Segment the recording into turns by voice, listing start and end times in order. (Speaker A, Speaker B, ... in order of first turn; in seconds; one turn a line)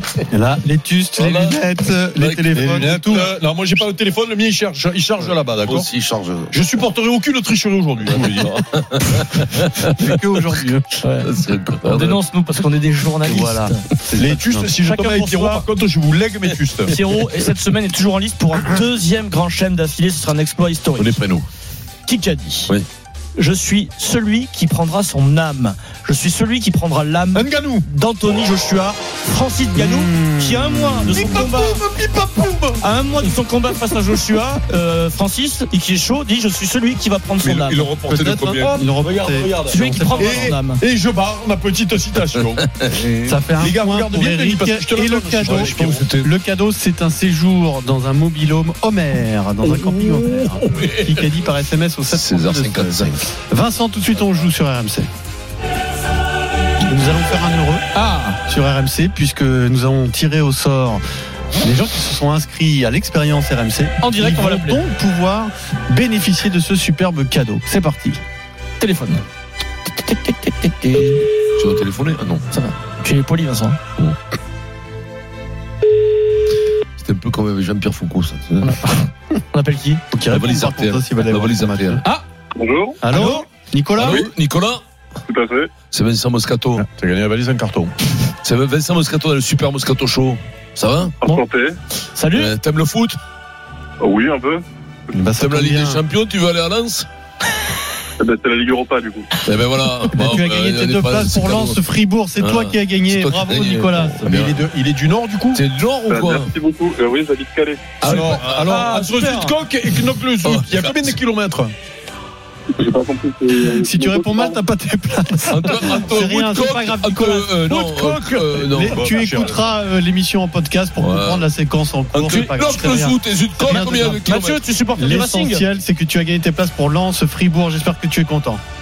Speaker A: 0.3-3.3
Speaker B: 1.2-1.6
Speaker B: 2.2-2.5
Speaker C: 2.5-5.9
Speaker B: 5.6-6.5
Speaker C: 6.5-8.6
Speaker B: 8.3-9.8
Speaker A: 9.8-10.8
Speaker D: 11.0-11.3
Speaker B: 11.2-12.2
Speaker D: 11.8-13.8
Speaker A: 13.2-14.7
Speaker C: 14.2-16.9
Speaker D: 14.8-15.7
Speaker D: 16.9-21.2
Speaker B: 21.0-21.4
Speaker D: 22.1-22.7
Speaker D: 23.4-31.8
Speaker C: 27.4-27.8
Speaker A: 29.8-31.4
Speaker C: 31.1-32.8
Speaker D: 32.8-37.9
Speaker B: 37.4-39.5
Speaker A: 38.1-40.5
Speaker D: 39.7-40.8
Speaker C: 40.1-42.7
Speaker B: 42.8-43.4
Speaker A: 43.3-55.1
Speaker C: 43.5-46.2
Speaker B: 45.8-46.1
Speaker B: 50.7-51.3
Speaker B: 52.1-53.2
Speaker A: 56.8-57.8
Speaker D: 58.0-58.4
Speaker A: 58.5-61.0
Speaker A: 61.6-68.2
Speaker D: 64.0-64.8
Speaker D: 68.8-69.2
Speaker D: 69.9-71.2
Speaker B: 71.6-72.4
Speaker D: 72.5-73.8
Speaker B: 77.0-78.8
Speaker D: 78.6-80.0
Speaker A: 80.1-82.0
Speaker B: 80.3-82.0
Speaker E: 82.6-83.0
Speaker A: 83.0-84.3
Speaker D: 83.1-83.5
Speaker B: 84.0-84.8
Speaker E: 85.3-85.7
Speaker B: 85.9-86.8
Speaker C: 87.0-87.9
Speaker B: 88.4-91.2
Speaker E: 91.2-91.8
Speaker D: 92.1-92.5
Speaker B: 92.3-93.2
Speaker E: 94.0-94.6
Speaker A: 95.2-96.0
Speaker B: 95.3-97.1
Speaker E: 98.2-99.3
Speaker B: 99.4-101.8
Speaker A: 100.1-104.5
Speaker B: 102.4-104.6
Speaker C: 104.2-105.6
Speaker B: 105.5-106.5
Speaker E: 106.1-108.1
Speaker B: 108.0-108.9
Speaker C: 108.0-111.7
Speaker D: 108.6-109.6
Speaker B: 109.9-111.2
Speaker E: 112.7-114.6
Speaker A: 113.7-117.8
Speaker B: 115.5-119.0
Speaker C: 117.7-119.7
Speaker A: 118.6-124.4
Speaker B: 121.0-121.5
Speaker B: 122.1-124.6
Speaker D: 123.7-125.7
Speaker A: 125.0-128.6